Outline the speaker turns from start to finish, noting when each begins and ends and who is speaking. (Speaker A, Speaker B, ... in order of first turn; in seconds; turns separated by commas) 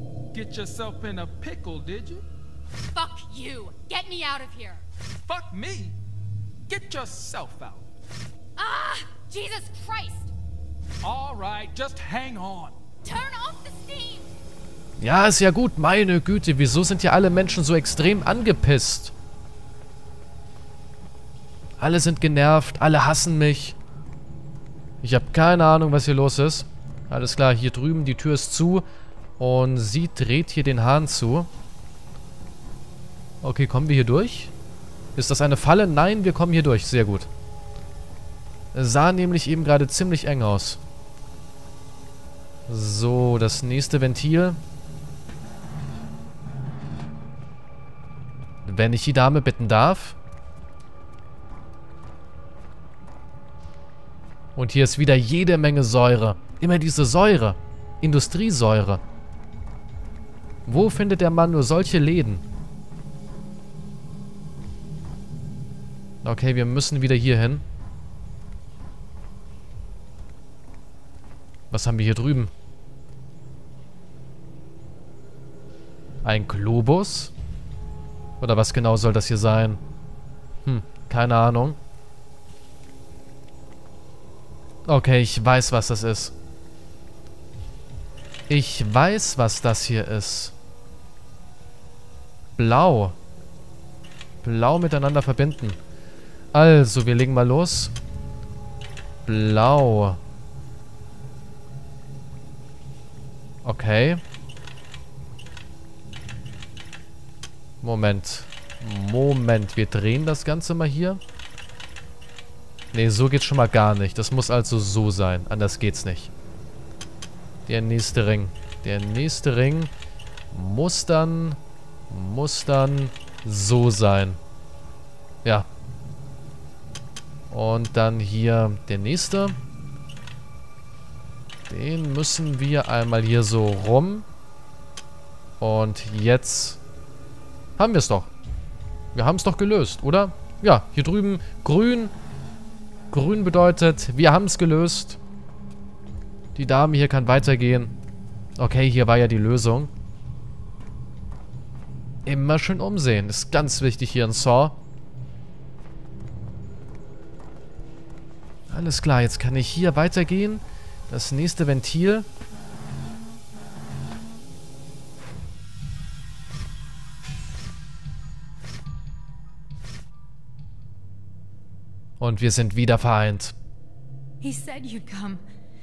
Speaker A: 0.3-2.2, Speaker B: 2.9-4.8, Speaker A: 5.2-6.0, Speaker A: 6.7-7.9, Speaker B: 8.6-10.3, Speaker A: 11.0-12.8, Speaker B: 13.0-14.3, Speaker C: 15.0-19.1, Speaker C: 21.8-23.8, Speaker C: 25.0-28.9, Speaker C: 29.4-31.5, Speaker C: 33.4-34.5, Speaker C: 35.1-37.3, Speaker C: 38.7-40.8, Speaker C: 42.7-44.6, Speaker C: 48.6-50.1, Speaker C: 54.5-59.0, Speaker C: 60.6-62.4, Speaker C: 66.2-67.6, Speaker C: 71.7-72.5, Speaker C: 76.2-77.3, Speaker C: 78.4-79.8, Speaker C: 80.6-81.8, Speaker C: 84.8-86.3, Speaker C: 88.5-90.5, Speaker C: 92.5-93.2, Speaker C: 94.4-95.8, Speaker C: 96.5-97.9, Speaker C: 99.2-100.2, Speaker C: 103.6-104.2, Speaker C: 107.8-111.2, Speaker C: 112.9-116.3, Speaker C: 117.7-119.9, Speaker C: 120.5-121.6, Speaker C: 122.1-124.4, Speaker C: 127.5-129.6, Speaker C: 131.7-134.2, Speaker C: 135.6-136.8, Speaker C: 137.8-138.3, Speaker C: 139.1-142.1, Speaker C: 143.1-145.2, Speaker C: 146.6-147.9, Speaker C: 148.6-149.9, Speaker C: 152.2-154.8, Speaker C: 158.7-162.2, Speaker C: 172.2-173.5, Speaker B: 174.4-175.4